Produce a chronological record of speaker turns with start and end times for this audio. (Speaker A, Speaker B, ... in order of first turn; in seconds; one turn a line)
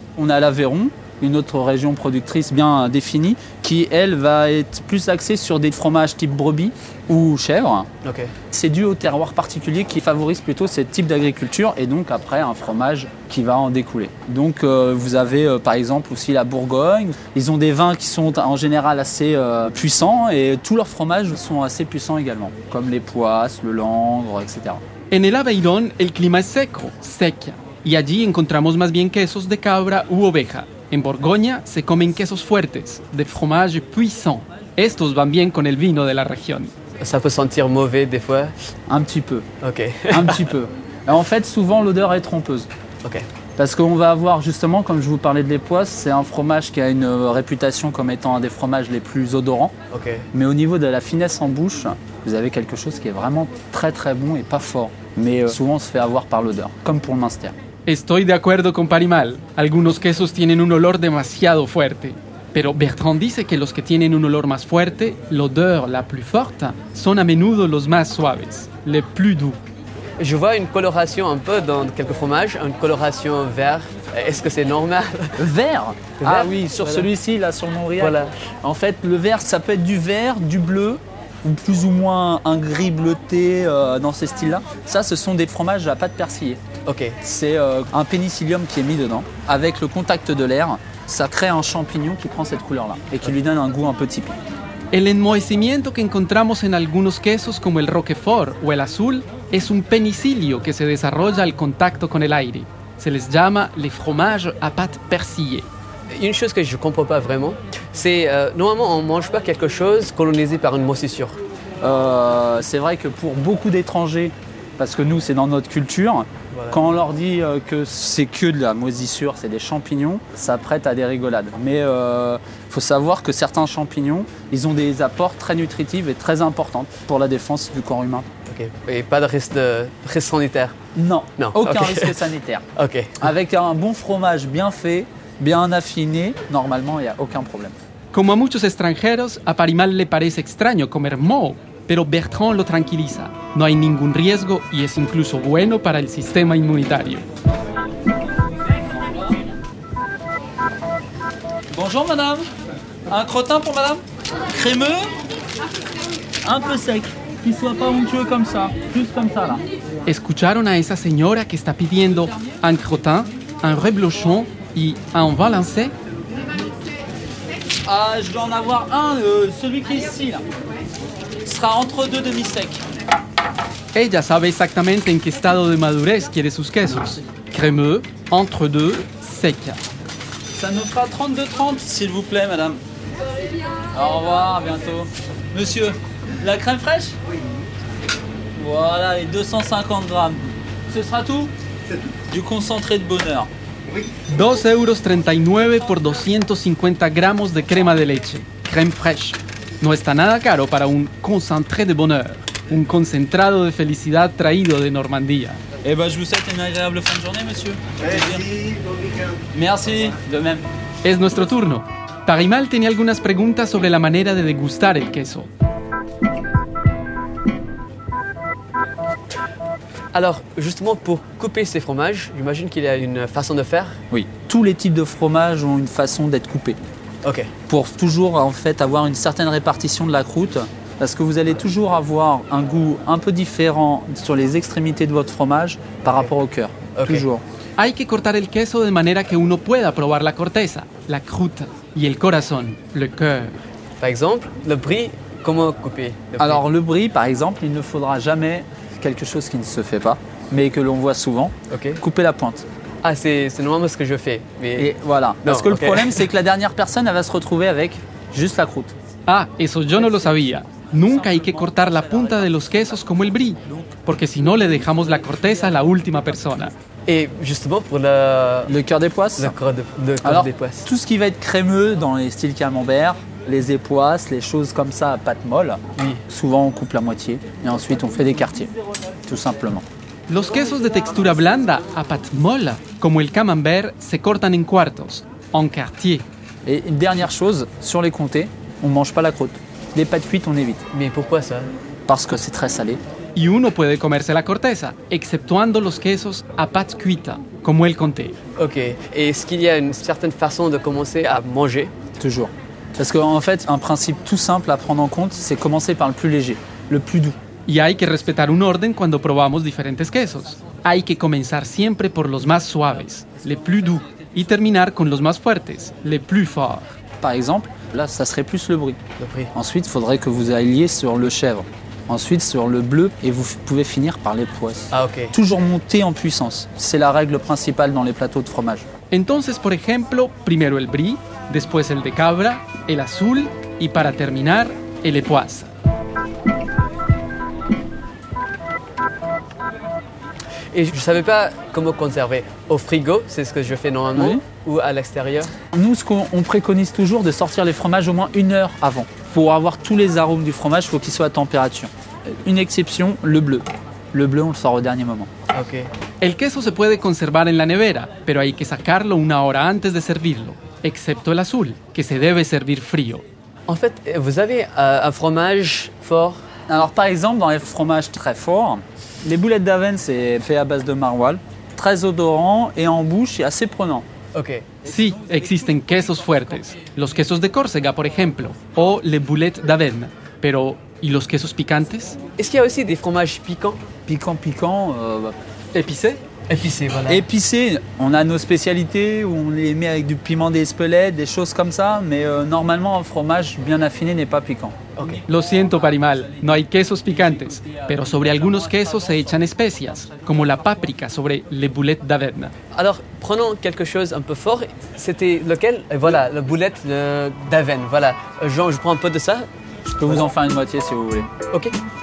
Speaker A: 0.2-7.9
Speaker B: 8.0-8.3
Speaker A: 8.5-24.8
Speaker C: 25.1-36.7
Speaker B: 37.0-38.5
Speaker A: 38.9-39.5
Speaker B: 39.6-40.5
Speaker A: 40.1-42.7
Speaker A: 43.6-49.7
Speaker B: 49.9-50.2
Speaker A: 50.3-57.5
Speaker C: 57.9-69.6
Speaker B: 70.2-75.4
Speaker A: 75.4-86.6
Speaker B: 76.2-77.1
Speaker B: 78.0-78.3
Speaker B: 86.8-87.2
Speaker A: 87.2-94.4
Speaker C: 94.9-105.7
Speaker B: 106.1-111.4
Speaker A: 111.8-128.3
Speaker B: 116.5-116.8
Speaker B: 128.5-130.7
Speaker A: 130.9-132.6
Speaker B: 131.4-133.3
Speaker A: 133.2-137.7
Speaker C: 138.1-147.2
Speaker A: 149.0-149.4
Speaker A: 151.7-152.5
Speaker A: 153.1-155.1
Speaker A: 156.4-159.6
Speaker C: 160.1-165.9
Speaker A: 167.8-170.4
Speaker A: 171.4-172.8
Speaker C: 173.9-179.8
Speaker A: 180.5-182.8
Speaker A: 183.9-187.2
Speaker A: 188.6-191.5
Speaker A: 192.3-193.5
Speaker C: 194.3-205.6
Speaker A: 205.8-208.8
Speaker A: 209.5-210.7
Speaker C: 211.0-215.5
Speaker B: 220.1-224.0
Speaker A: 224.1-226.8
Speaker B: 227.2-227.5
Speaker A: 227.7-237.4
Speaker B: 236.9-237.2
Speaker C: 237.8-243.5
Speaker B: 244.0-246.6
Speaker A: 246.4-252.6
Speaker B: 251.7-252.0
Speaker B: 253.0-254.9
Speaker A: 254.8-258.9
Speaker B: 255.4-256.2
Speaker C: 259.3-266.7
Speaker A: 260.1-263.9
Speaker B: 267.1-268.7
Speaker A: 268.7-269.5
Speaker B: 269.4-270.9
Speaker A: 270.2-278.7
Speaker B: 275.9-276.2
Speaker A: 279.2-279.8
Speaker C: 280.3-286.2
Speaker A: 286.6-290.8
Speaker B: 290.9-291.7
Speaker A: 292.1-293.0
Speaker C: 293.4-298.4
Speaker B: 298.6-301.9
Speaker A: 302.2-307.4
Speaker C: 307.6-316.9
Speaker A: 317.2-319.0
Speaker B: 319.2-319.5
Speaker A: 319.5-328.9
Speaker B: 324.9-325.4
Speaker C: 329.1-335.7
Speaker B: 340.7-345.5
Speaker A: 344.1-344.4
Speaker A: 345.7-355.3
Speaker B: 355.5-355.9
Speaker C: 356.2-363.2
Speaker B: 363.7-366.4
Speaker A: 366.7-374.1
Speaker B: 374.3-374.8
Speaker C: 374.8-382.2
Speaker B: 382.4-383.8
Speaker A: 384.1-385.3
Speaker C: 385.7-386.2
Speaker B: 386.5-387.2
Speaker A: 387.1-400.6
Speaker B: 395.0-395.2
Speaker C: 395.3-402.5
Speaker B: 402.7-409.5
Speaker A: 409.8-411.3